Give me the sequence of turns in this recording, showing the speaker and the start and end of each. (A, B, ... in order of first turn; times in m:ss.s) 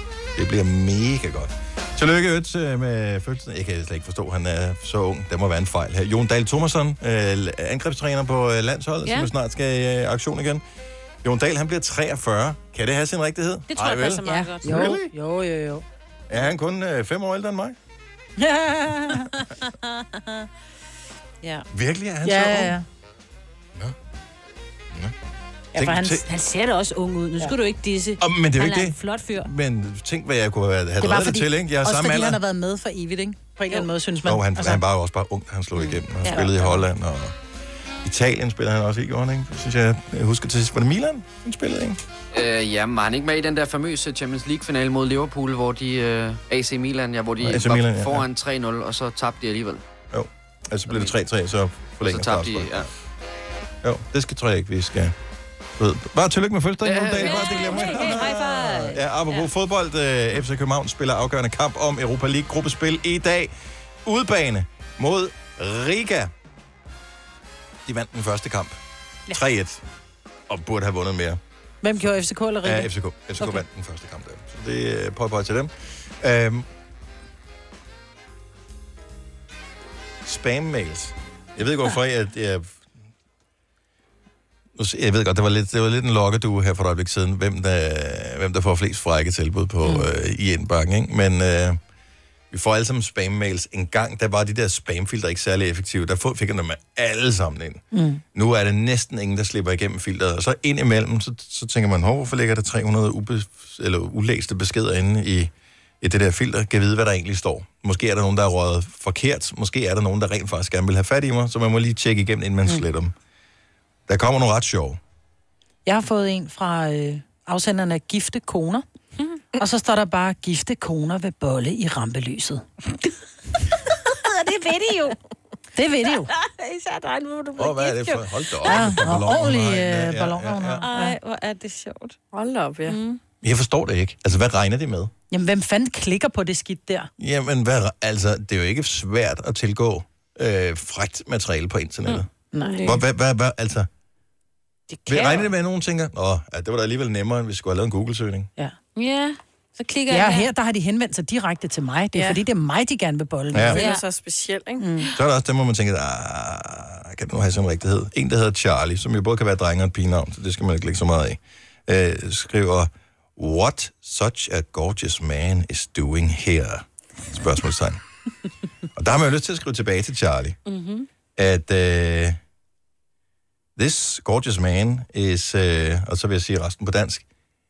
0:00.4-0:10.6 A
0:09.0-0:09.3 B
0:11.2-0:15.1 A
0:13.7-0:14.9 B
0:14.2-0:15.8 C
0:16.3-0:17.8 A
0:18.4-0:19.3 C
0:19.6-0:20.5 B
0:21.7-0:22.8 A
0:22.2-0:22.8 C
0:25.7-0:26.2 C
0:25.7-0:26.2 A
0:26.2-0:29.5 B
0:28.2-0:32.4 A
0:31.0-0:34.8 C
0:34.2-0:37.4 A
0:36.2-0:36.8 B
0:38.0-0:42.0 A
0:42.3-0:49.8 D
0:47.4-0:48.3 A
0:50.1-0:52.9 A
0:52.0-0:52.9 D
0:53.8-0:55.1 A
0:55.8-1:03.5 A
0:56.8-0:57.3 D
0:57.0-0:59.5 B
1:04.0-1:06.3 A
1:07.8-1:08.8 A
1:09.3-1:09.8 A
1:10.5-1:11.4 A
1:11.8-1:12.9 C
1:12.6-1:16.7 A
1:20.2-1:22.8 A
1:24.8-1:31.8 A
1:32.5-1:37.8 A
1:37.9-1:38.2 C
1:38.3-1:53.1 A
1:54.1-1:55.0 A
1:55.8-1:58.8 C
1:59.6-2:02.6 C
2:04.1-2:05.2 B
2:05.8-2:06.3 C
2:06.3-2:09.0 B
2:07.6-2:10.8 A
2:08.6-2:11.1 C
2:10.8-2:12.2 B
2:12.3-2:13.0 E
2:12.8-2:13.2 B
2:13.4-2:15.1 A
2:15.3-2:17.1 C
2:17.2-2:22.3 A
2:22.5-2:22.8 C
2:22.6-2:23.0 E
2:22.8-2:23.9 A
2:24.9-2:25.5 B
2:25.1-2:28.5 A
2:29.0-2:30.5 B
2:30.1-2:33.9 C
2:32.1-2:32.4 E
2:33.5-2:33.8 A
2:33.6-2:35.0 E
2:33.8-2:34.0 B
2:34.8-2:35.1 C
2:35.1-2:48.0 A
2:49.0-2:50.6 A
2:50.7-2:51.1 B
2:51.4-2:52.4 A
2:53.8-2:57.2 A